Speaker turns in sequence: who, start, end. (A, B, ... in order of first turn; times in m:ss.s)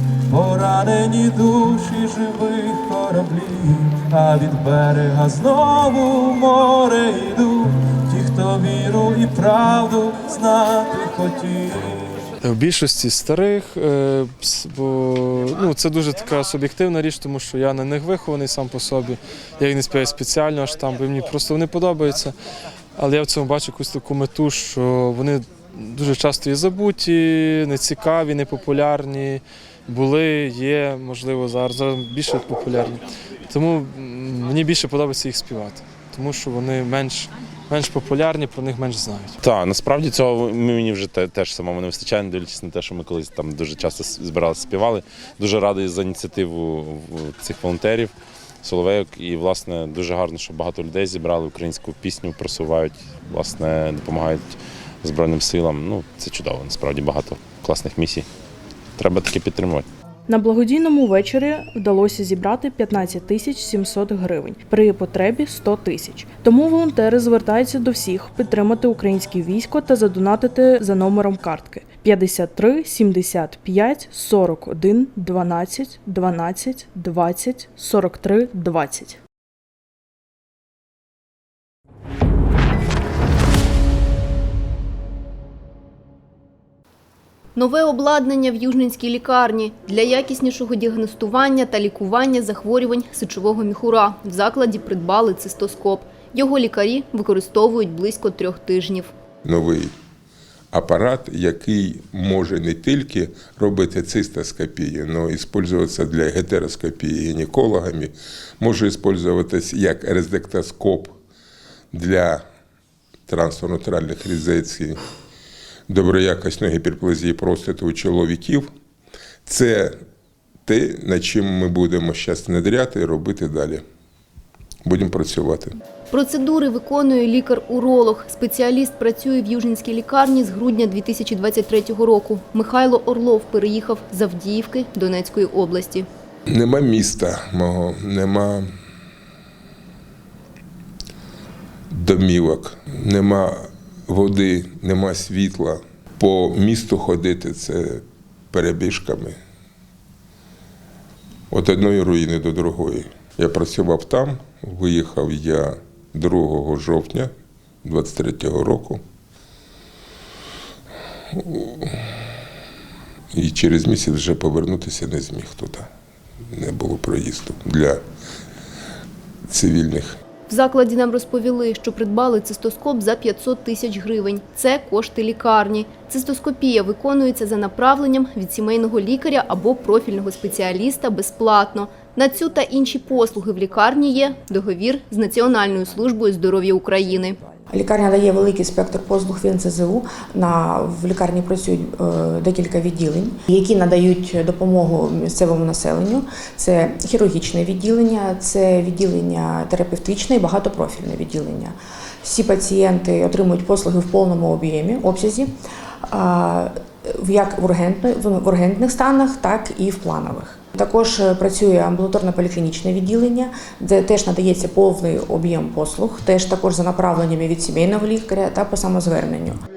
0:00.3-0:12.3 A
0:12.4-0:22.4 B
0:23.0-0:39.3 B
0:39.4-0:58.3 C
0:59.0-0:59.9 C
1:00.3-1:19.2 D
1:27.6-1:39.1 E
1:39.4-1:39.9 F
1:40.7-1:51.1 F
1:51.9-1:52.4 F
1:53.3-1:55.0 F
1:55.9-1:58.7 F
1:59.4-1:59.9 F
2:00.6-2:03.8 F
2:04.8-2:05.7 F
2:06.1-2:16.0 E
2:16.5-2:18.7 F
2:21.9-2:23.6 F
2:24.1-2:29.4 F
2:31.5-2:37.3 F
2:37.8-2:39.0 F
2:41.4-2:41.9 F
2:43.3-2:45.9 F
2:46.6-2:48.0 F
2:49.5-2:50.1 F
2:50.5-3:07.4 E
3:07.7-3:25.5 G
3:26.1-3:39.6 G